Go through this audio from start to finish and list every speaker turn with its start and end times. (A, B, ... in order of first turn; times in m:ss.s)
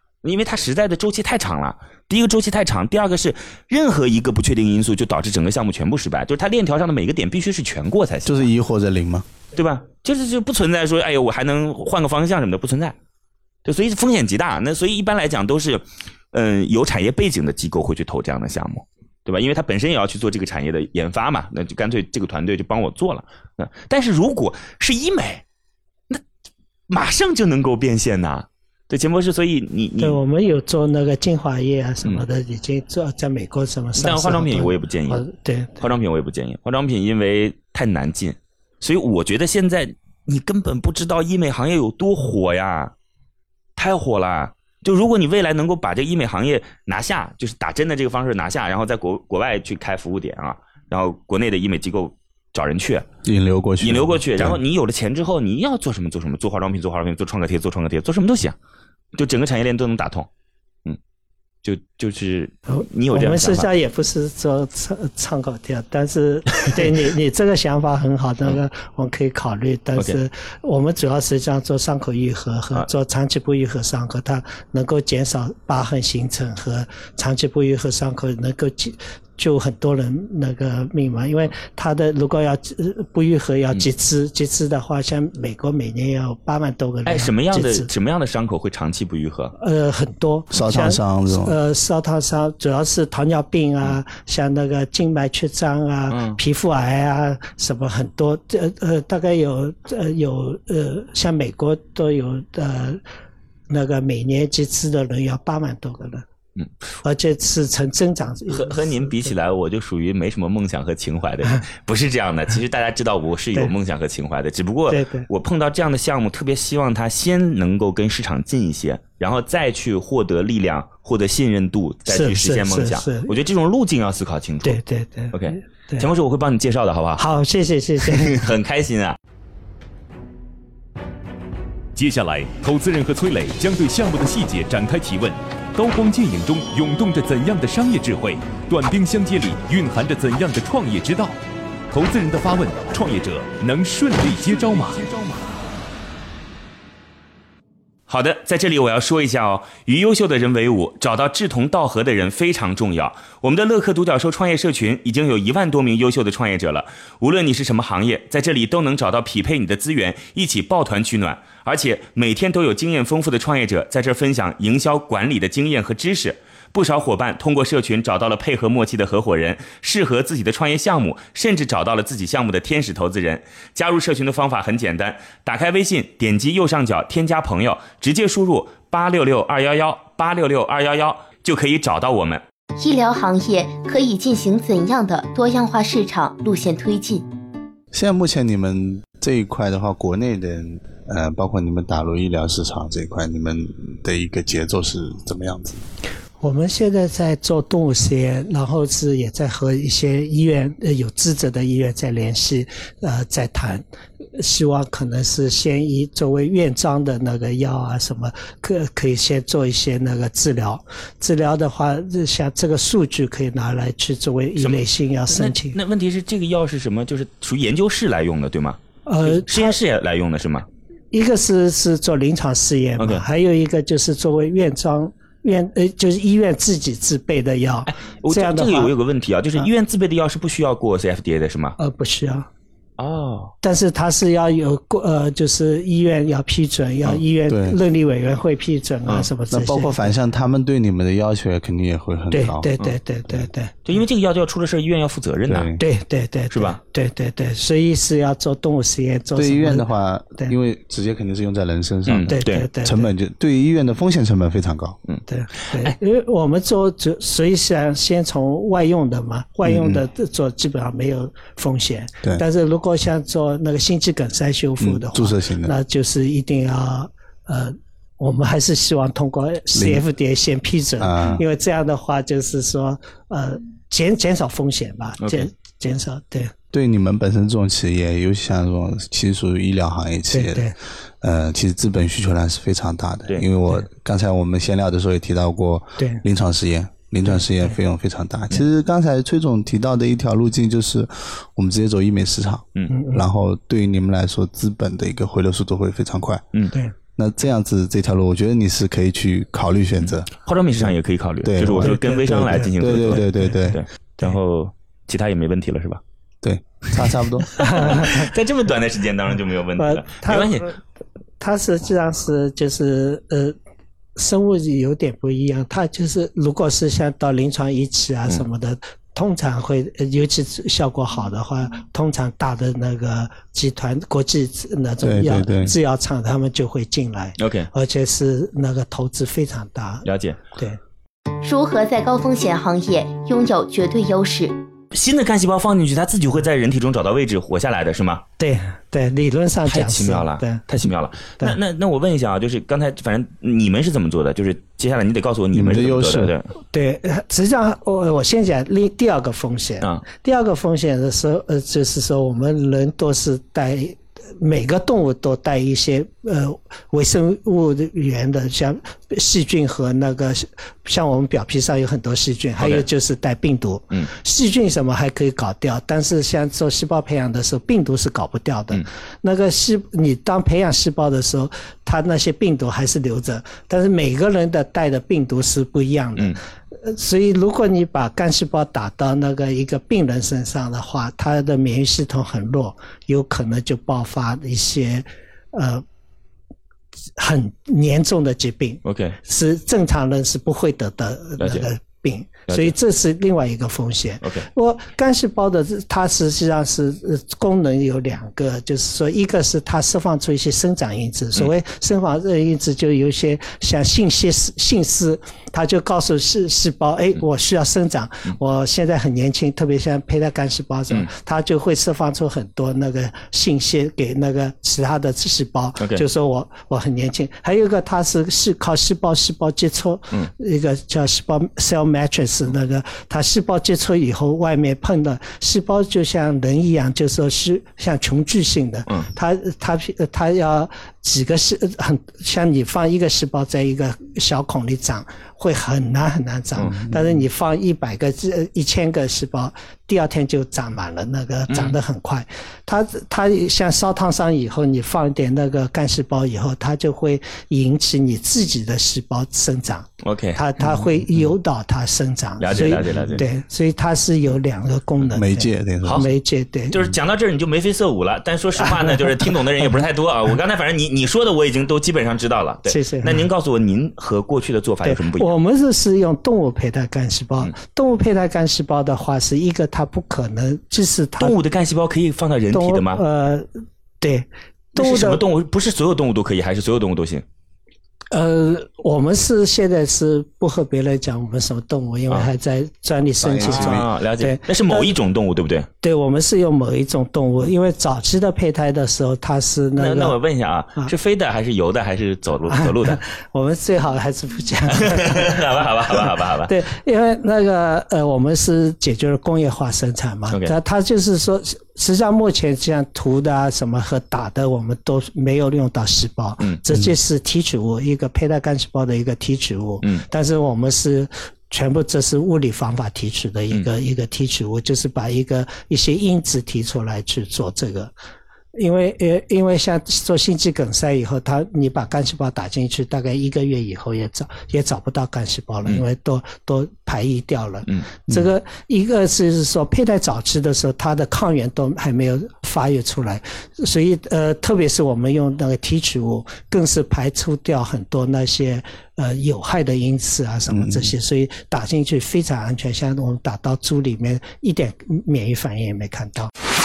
0:00.2-0:08.5 A
0:08.2-0:09.2 B
0:09.5-0:12.9 A
0:13.6-0:25.4 A
0:26.9-0:30.2 A
0:30.0-0:35.8 C
0:34.0-0:35.2 A
0:35.8-0:42.9 A
0:43.8-0:53.1 A
0:53.2-0:54.6 B
0:53.8-0:58.6 A
0:59.1-1:00.3 A
1:01.6-1:03.7 A
1:02.7-1:27.9 C
1:27.0-1:29.5 A
1:29.6-1:43.0 C
1:30.5-1:31.6 B
1:36.1-1:36.4 A
1:43.7-1:46.2 C
1:47.0-1:49.3 C
1:48.5-2:04.8 A
1:54.9-1:55.3 C
2:02.1-2:03.3 C
2:04.6-2:06.1 C
2:05.3-2:07.2 A
2:07.2-2:08.4 C
2:08.0-2:09.2 A
2:11.9-2:21.4 D
2:21.9-2:25.1 D
2:28.1-3:02.4 A
3:02.8-3:07.3 E
3:07.9-3:15.8 B
3:16.4-3:23.8 C
3:24.4-3:35.8 C
3:34.6-3:40.7 A
3:39.0-3:39.8 C
3:41.1-3:48.9 C
3:43.0-3:43.2 A
3:47.9-3:51.8 A
3:51.8-3:52.5 C
3:53.0-3:53.5 A
3:53.6-4:00.1 C
3:57.5-3:57.8 B
3:59.5-4:02.7 B
4:02.3-4:03.7 C
4:03.8-4:05.8 A
4:05.5-4:05.8 B
4:05.8-4:10.5 C
4:06.5-4:06.8 A
4:09.4-4:15.0 B
4:12.0-4:12.7 A
4:12.3-4:13.1 C
4:15.1-4:15.9 A
4:15.3-4:36.5 C
4:19.6-4:20.0 B
4:24.8-4:25.7 B
4:29.7-4:30.0 B
4:31.0-4:31.4 B
4:35.2-4:35.5 A
4:36.7-4:56.4 B
4:40.3-4:40.7 C
4:47.2-4:47.8 C
4:52.9-4:53.2 C
4:57.2-5:00.3 B
5:00.0-5:06.0 A
5:01.4-5:03.8 B
5:01.8-5:03.6 C
5:06.4-5:07.5 B
5:07.6-5:10.7 A
5:07.6-5:08.3 C
5:09.8-5:10.8 C
5:11.4-5:13.6 C
5:14.2-5:30.8 C
5:25.0-5:25.7 B
5:27.4-5:27.7 A
5:30.0-5:30.4 A
5:31.4-5:34.6 E
5:34.9-5:38.2 A
5:38.4-5:40.6 C
5:39.6-5:46.5 A
5:45.5-5:46.3 B
5:46.7-6:25.8 C
6:02.6-6:02.8 A
6:27.2-7:36.7 C
6:28.8-6:29.2 A
6:31.4-6:31.7 A
6:32.5-6:32.7 A
6:34.2-6:34.5 A
7:21.5-7:21.8 A
7:30.0-7:30.4 A
7:32.4-7:33.2 A
7:35.1-7:36.0 B
7:35.8-7:36.1 A
7:36.7-7:45.3 A
7:38.6-7:39.0 C
7:42.6-7:43.2 C
7:44.8-7:51.3 C
7:51.2-7:53.0 A
7:52.5-7:53.5 C
7:54.0-7:55.2 C
7:54.8-7:57.2 A
7:58.1-8:04.9 C
8:03.2-8:03.8 B
8:03.4-8:05.7 A
8:05.8-8:10.1 C
8:09.8-8:13.0 A
8:12.5-8:15.4 C
8:14.7-8:16.5 A
8:16.5-8:37.9 C
8:38.5-9:06.3 C
9:00.5-9:00.9 B